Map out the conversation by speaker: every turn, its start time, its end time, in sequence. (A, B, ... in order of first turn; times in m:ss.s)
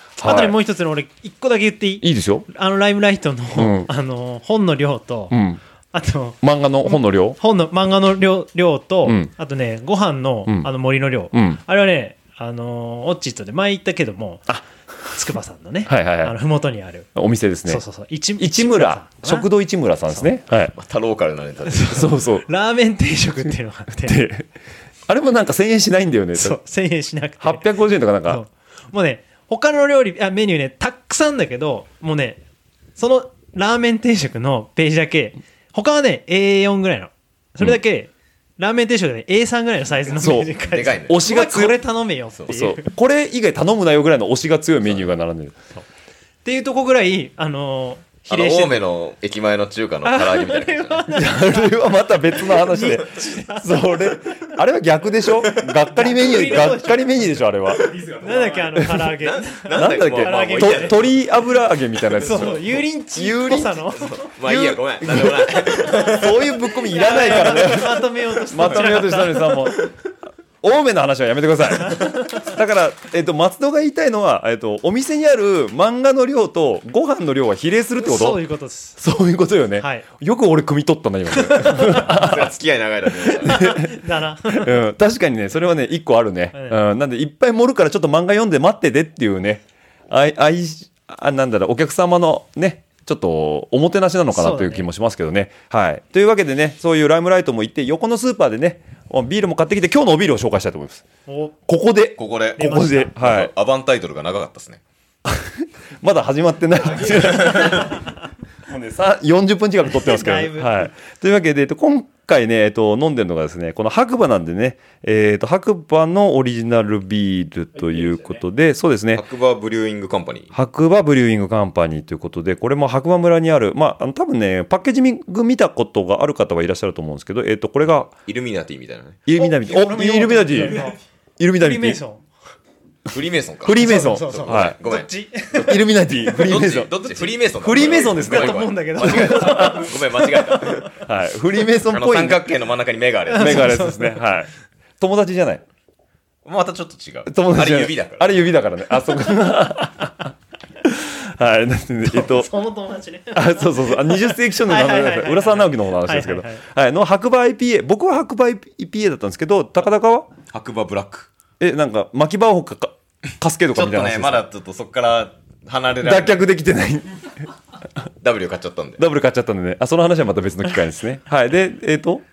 0:00.2-0:00.6 A
0:00.2-0:05.4 B
0:02.0-0:02.5 A
0:03.6-0:03.9 A
0:05.3-0:05.6 A
0:05.9-0:14.6 B
0:06.4-0:07.4 A
0:09.0-0:09.3 A
0:11.3-0:11.6 A
0:15.1-0:17.1 B
0:15.9-0:16.4 A
0:17.2-0:17.8 A
0:17.7-0:19.5 B
0:18.4-0:20.7 A
0:20.8-0:22.1 C
0:21.8-0:22.5 A
0:22.5-0:24.2 B
0:24.0-0:24.5 A
0:25.1-0:26.6 A
0:26.4-0:27.7 B
0:27.4-0:28.4 A
0:28.2-0:32.4 B
0:33.0-0:42.9 B
0:40.2-0:41.8 A
0:40.7-0:41.2 C
0:42.5-0:45.6 A
0:46.4-0:48.8 B
0:48.3-0:51.1 C
0:50.0-0:51.8 B
0:51.1-0:58.1 A
0:52.4-0:53.8 B
0:55.9-0:57.2 B
0:58.1-1:01.0 B
0:58.8-0:59.1 A
0:59.2-1:01.1 C
0:59.7-1:03.8 A
1:02.2-1:04.2 B
1:02.3-1:02.6 C
1:03.2-1:06.6 C
1:04.4-1:09.8 A
1:06.9-1:09.6 B
1:10.6-1:18.4 A
1:12.0-1:12.4 B
1:18.0-1:19.0 B
1:19.0-1:22.5 A
1:19.8-1:20.1 B
1:21.3-1:22.1 B
1:21.9-1:23.8 C
1:23.3-1:24.0 A
1:23.5-1:24.8 B
1:24.5-1:41.0 A
1:26.5-1:26.8 B
1:34.3-1:34.9 B
1:41.3-1:41.5 B
1:41.7-1:43.5 A
1:42.2-1:44.8 C
1:42.6-1:43.1 B
1:45.3-1:47.9 A
1:47.0-1:47.6 C
1:48.7-1:59.2 A
1:50.0-1:50.9 B
1:59.1-2:00.5 C
2:00.5-2:08.1 A
2:08.3-2:09.2 C
2:09.3-2:10.9 A
2:09.4-2:11.0 B
2:11.4-2:12.0 A
2:11.6-2:12.2 B
2:13.1-2:15.1 C
2:13.6-2:14.8 A
2:13.8-2:16.4 B
2:15.5-2:20.0 A
2:16.4-2:20.9 C
2:18.2-2:19.9 B
2:21.0-2:22.4 A
2:21.9-2:23.8 C
2:23.3-2:24.5 A
2:23.4-2:24.1 B
2:25.0-2:25.6 A
2:26.4-2:28.5 C
2:27.3-2:30.3 A
2:30.8-2:32.5 A
2:32.1-2:36.6 B
2:33.3-2:40.3 A
2:40.5-2:41.3 C
2:41.6-2:44.4 A
2:43.8-2:46.4 C
2:46.0-2:47.3 A
2:48.2-2:49.0 C
2:49.0-2:52.2 A